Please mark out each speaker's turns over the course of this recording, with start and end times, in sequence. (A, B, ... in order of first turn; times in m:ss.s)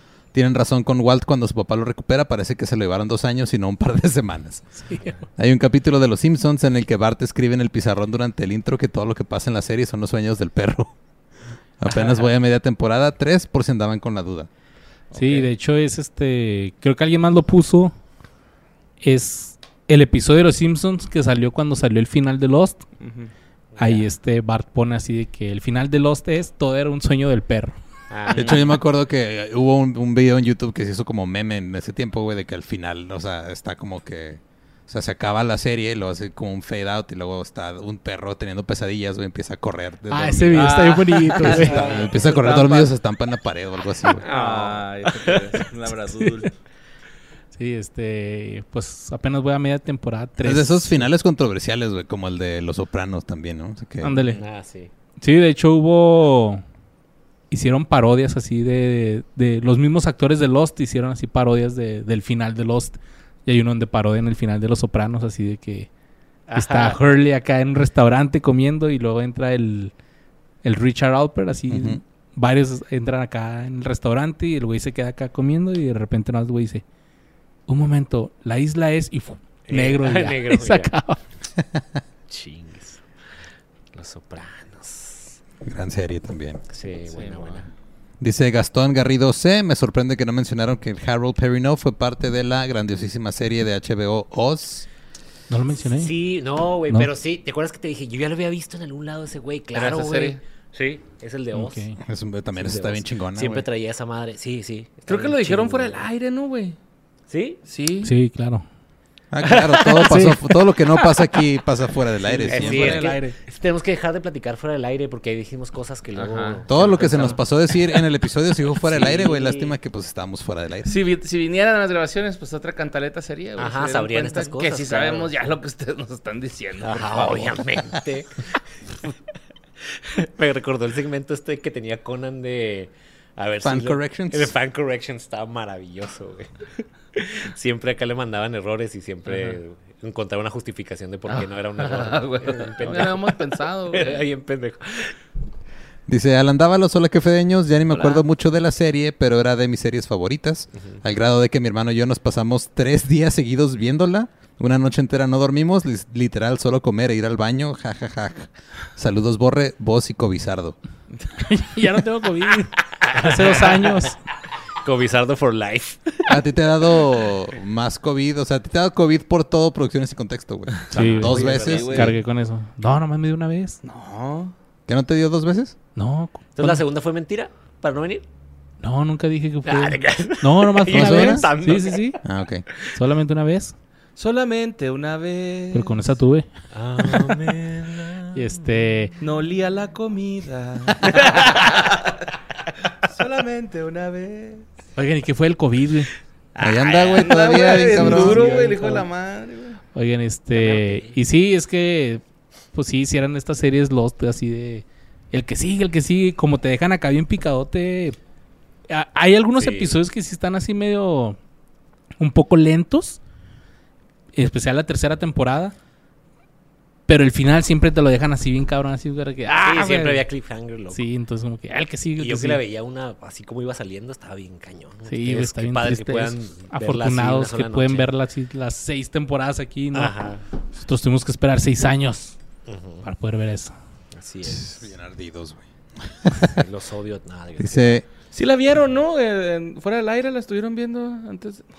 0:00.3-0:04.7 A
0:04.8-0:05.2 B
0:05.3-0:10.9 A
0:11.8-0:14.5 A
0:15.1-0:15.5 C
0:15.1-0:17.9 B
0:19.0-0:22.8 B
0:23.0-0:23.3 C
0:23.7-0:24.1 D
0:23.8-0:27.8 B
0:28.1-0:28.8 D
0:28.3-0:28.7 C
0:28.3-0:40.9 A
0:40.1-0:41.8 B
0:40.5-0:42.9 C
0:41.4-0:44.2 A
0:41.4-0:42.5 D
0:44.1-0:45.6 D
0:44.2-0:46.5 C
0:47.5-0:51.1 B
0:50.4-0:54.2 A
0:54.0-0:54.4 B
0:54.3-0:54.9 D
0:55.2-0:56.6 B
0:57.5-1:05.9 B
1:06.5-1:07.0 D
1:06.5-1:09.9 B
1:10.6-1:16.8 B
1:11.7-1:12.0 A
1:17.7-1:21.2 B
1:19.7-1:20.9 D
1:21.6-1:22.0 A
1:22.3-1:23.0 D
1:23.9-1:25.4 D
1:25.6-1:26.6 A
1:26.7-1:27.7 D
1:27.1-1:27.6 C
1:28.2-1:34.9 A
1:35.5-1:36.1 B
1:35.9-1:41.9 D
1:39.7-1:40.4 C
1:41.5-1:42.0 B
1:42.0-1:43.6 A
1:42.5-1:46.1 D
1:45.1-1:46.8 C
1:47.3-1:47.6 D
1:47.6-1:48.1 C
1:48.0-1:48.6 B
1:49.3-1:53.1 A
1:49.4-1:50.3 D
1:50.0-1:50.4 B
1:52.3-1:57.4 D
1:52.5-1:53.4 B
1:56.1-1:57.4 C
1:56.7-2:00.9 A
1:58.8-1:59.8 D
2:00.8-2:07.8 C
2:03.6-2:05.3 D
2:06.8-2:08.6 D
2:09.9-2:16.5 D
2:13.6-2:14.5 A
2:17.1-2:25.2 D
2:19.3-2:19.6 C
2:21.3-2:24.2 C
2:26.1-2:40.8 A
2:27.9-2:28.2 C
2:41.4-2:44.2 B
2:43.1-2:44.0 D
2:44.8-2:46.4 D
2:46.3-2:52.1 A
2:50.9-2:53.8 B
2:50.9-2:52.1 D
2:51.3-2:52.2 C
2:53.8-2:54.5 C
2:54.9-2:55.8 A
2:56.0-2:56.8 B
2:56.6-2:58.2 D
2:58.8-3:02.2 B
2:59.6-3:02.1 D
3:00.9-3:01.5 A
3:02.2-3:02.6 A
3:02.9-3:03.7 B
3:04.2-3:06.1 C
3:05.7-3:06.5 B
3:06.7-3:08.7 D
3:08.3-3:09.1 B
3:09.2-3:12.3 C
3:11.1-3:11.6 D
3:13.0-3:14.6 C
3:15.0-3:16.1 B
3:16.6-3:19.8 C
3:16.6-3:18.5 A
3:17.8-3:19.0 B
3:19.9-3:22.2 B
3:20.5-3:21.2 D
3:22.7-3:28.2 B
3:28.9-3:31.4 B
3:29.6-3:30.0 D
3:32.2-3:33.2 B
3:34.3-3:35.7 B
3:37.1-3:40.2 B
3:39.6-3:41.0 D
3:40.9-3:42.6 B
3:42.2-3:48.1 D
3:45.1-3:50.2 B
3:49.9-3:50.4 D
3:50.7-3:52.4 B
3:52.6-3:53.0 D
3:53.0-3:53.7 B
3:54.1-3:54.8 D
3:54.4-3:56.6 A
3:56.3-3:58.0 D
3:57.6-3:58.0 A
3:58.3-4:01.7 C